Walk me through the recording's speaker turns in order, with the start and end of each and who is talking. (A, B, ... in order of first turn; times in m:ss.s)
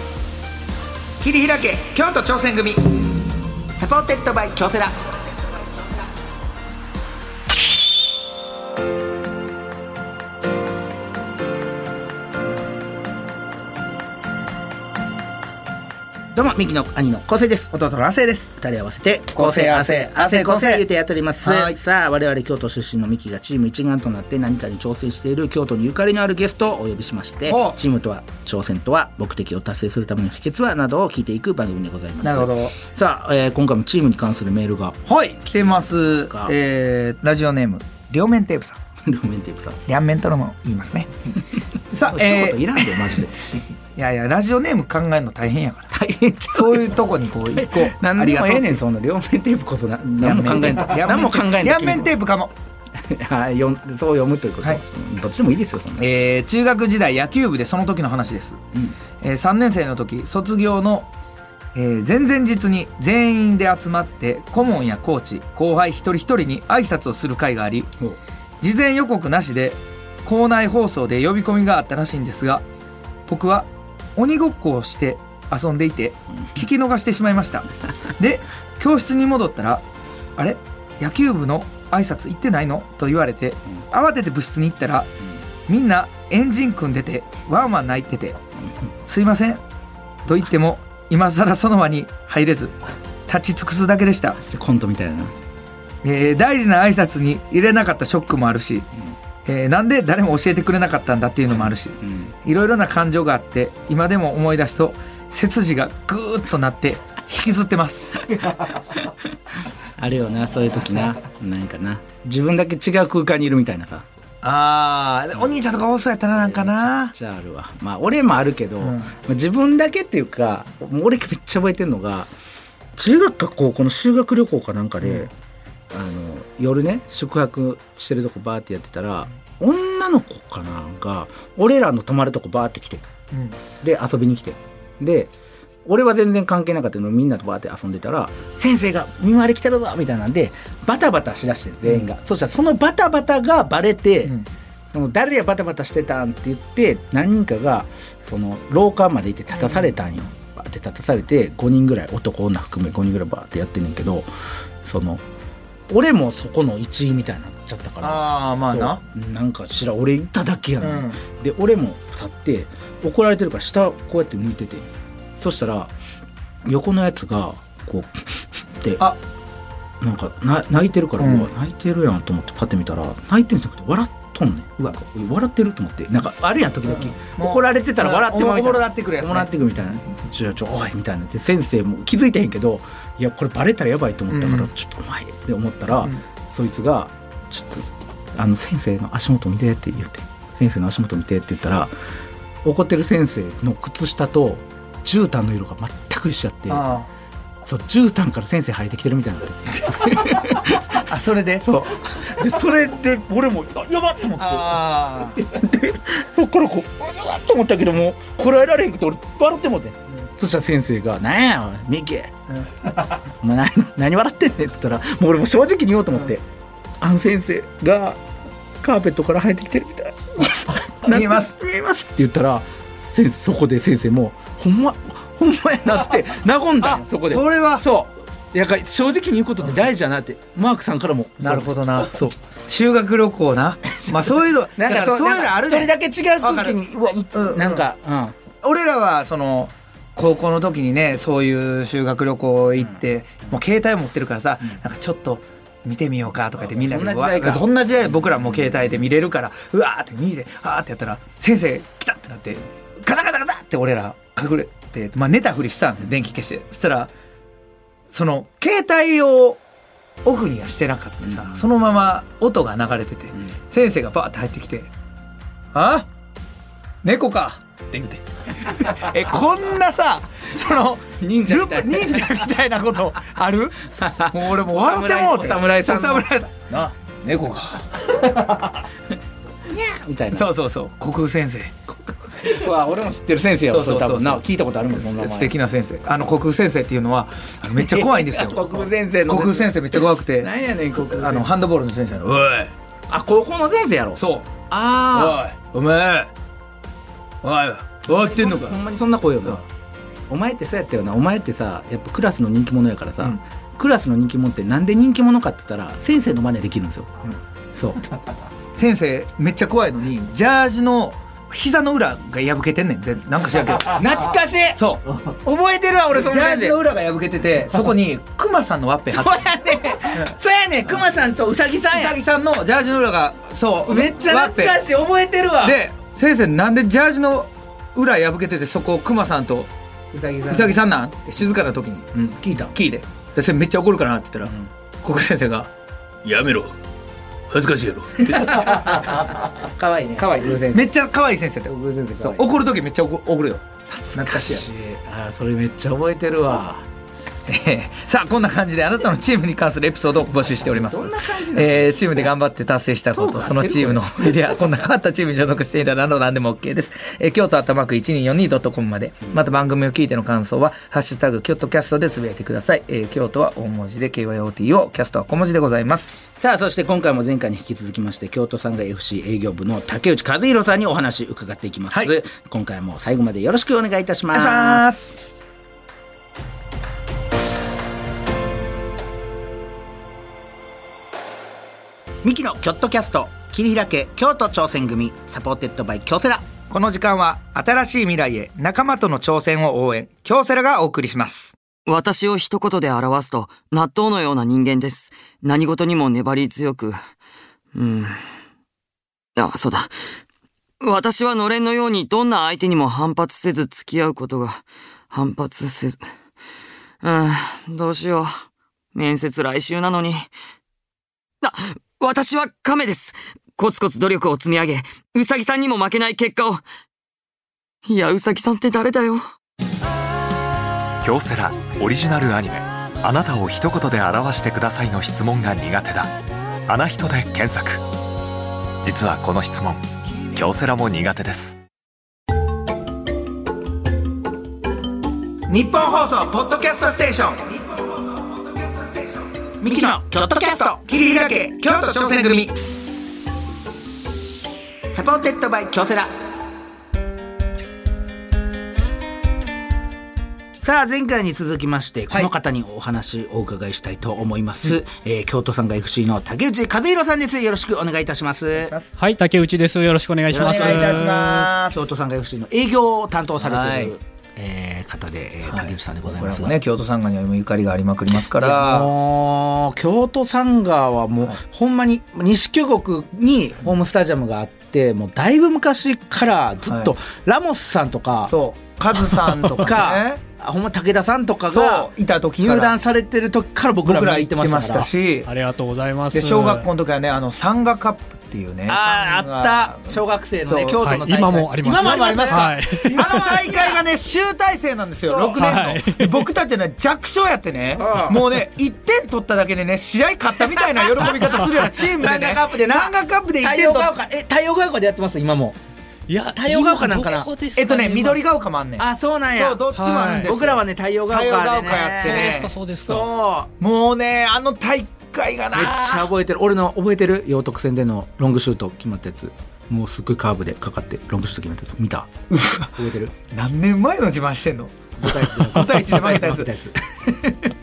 0:01.2-0:03.0 A
0:03.8-0:05.1 B
0:16.3-0:17.7 B
0:17.7-0:18.6 A
0:18.6-0:36.6 B
0:19.4-0:20.8 A
0:21.4-0:21.8 A
0:27.5-0:27.8 A
0:32.2-0:32.8 A
0:35.1-0:38.8 A
0:39.0-0:39.8 B
0:39.9-0:41.1 A
0:41.9-0:43.2 A
0:42.0-0:43.5 B
0:44.0-0:45.9 A
0:45.9-0:47.0 B
0:46.5-0:48.8 A
0:47.5-0:52.1 B
0:50.1-0:52.5 A
0:53.0-0:56.1 B
0:56.0-0:58.6 A
0:59.2-1:01.1 A
1:01.8-1:07.9 A
1:08.6-1:12.6 A
1:13.3-1:19.8 A
1:20.4-1:25.1 A
1:25.7-1:28.4 A
1:29.0-1:29.6 A
1:30.3-1:32.8 A
1:33.3-1:34.4 A
1:34.4-1:35.4 B
1:36.0-1:38.9 A
1:39.4-1:48.3 A
1:42.0-1:42.3 B
1:48.4-1:49.1 B
1:50.0-1:54.1 B
1:54.4-1:57.1 A
1:56.4-2:02.3 B
1:58.8-1:59.1 A
2:03.0-2:05.3 B
2:05.0-2:05.3 A
2:05.9-2:13.1 B
2:13.3-2:13.6 A
2:13.8-2:15.3 B
2:15.8-2:24.3 B
2:24.9-2:34.3 B
2:29.6-2:29.9 A
2:34.8-2:35.2 B
2:35.9-2:45.9 B
2:38.0-2:39.0 A
2:40.8-2:41.2 A
2:46.6-2:49.0 B
2:50.0-3:11.9 B
2:51.2-2:51.5 A
2:56.9-3:00.0 A
3:04.3-3:04.7 A
3:12.6-3:16.9 B
3:16.7-3:17.1 A
3:17.6-3:21.1 B
3:20.1-3:21.8 A
3:21.6-3:32.3 B
3:24.3-3:25.5 A
3:32.5-3:33.2 A
3:33.4-3:36.4 B
3:37.0-3:38.2 B
3:38.8-3:52.4 B
3:41.0-3:41.6 A
3:46.8-3:47.8 A
3:51.4-3:56.8 A
3:54.8-3:58.4 B
3:57.3-3:57.9 A
3:58.6-4:17.1 A
4:06.7-4:07.7 B
4:18.1-4:19.6 A
4:20.2-4:24.9 A
4:21.3-4:21.6 B
4:25.7-4:26.1 A
4:27.0-4:38.8 A
4:31.2-4:32.3 B
4:34.0-4:36.3 B
4:39.7-4:40.5 B
4:40.3-4:41.8 A
4:42.3-4:45.5 B
4:43.7-4:52.7 A
4:47.7-4:51.5 B
4:53.1-4:55.4 B
4:54.2-4:56.3 A
4:57.4-4:58.8 A
4:58.1-4:59.6 B
5:00.3-5:07.1 B
5:07.7-5:08.0 B
5:08.8-5:14.1 A
5:13.9-5:16.8 B
5:14.8-5:15.0 A
5:16.1-5:19.4 A
5:19.1-5:22.2 B
5:21.9-5:24.8 A
5:23.9-5:25.8 B
5:25.6-5:29.7 A
5:30.1-5:30.8 B
5:30.5-5:35.7 A
5:32.3-5:32.7 B
5:34.4-5:34.7 B
5:36.2-5:36.7 A
5:37.5-5:39.4 A
5:38.2-5:40.9 B
5:40.2-5:44.7 A
5:41.7-5:42.5 B
5:44.1-5:46.9 B
5:47.5-6:06.2 A
5:50.6-5:52.3 B
5:53.2-5:54.5 B
6:06.4-6:14.8 B
6:14.3-6:15.2 A
6:22.2-6:26.5 B
6:26.7-6:31.5 A
6:31.9-6:37.0 C
6:37.8-6:38.2 C
6:39.4-6:40.0 C
6:40.8-6:46.1 C
6:47.0-6:48.4 C
6:48.9-6:50.3 C
6:51.4-6:56.6 C
6:57.8-6:59.2 C
7:01.0-7:06.1 D
7:06.7-7:07.8 D
7:08.8-7:11.6 D
7:15.5-7:20.9 B
7:20.9-7:22.5 A
7:21.6-7:22.5 B
7:24.9-7:26.1 B
7:30.6-7:38.7 B
7:38.6-7:38.9 A
7:39.0-7:41.5 E
7:40.3-7:46.6 B
7:40.4-7:41.9 A
7:43.4-7:43.9 A
7:45.5-7:48.9 A
7:48.4-7:58.4 B
7:56.7-7:56.9 A
7:58.3-8:00.2 A
7:59.6-8:04.9 B
8:01.5-8:02.8 A
8:03.8-8:05.3 A
8:05.3-8:06.7 E
8:06.1-8:10.8 A
8:08.7-8:13.8 B
8:10.8-8:13.2 E
8:11.6-8:23.9 A
8:15.1-8:15.6 B
8:15.4-8:16.3 E
8:17.8-8:18.3 B
8:20.4-8:25.6 B
8:26.1-8:28.2 E
8:26.3-8:27.3 B
8:27.6-8:32.5 A
8:28.8-8:29.6 B
8:29.7-8:30.3 E
8:30.2-8:33.5 B
8:32.0-8:33.1 E
8:33.6-8:36.1 A
8:35.5-8:43.1 B
8:42.3-8:42.8 A
8:43.3-8:46.5 A
8:45.0-8:47.5 B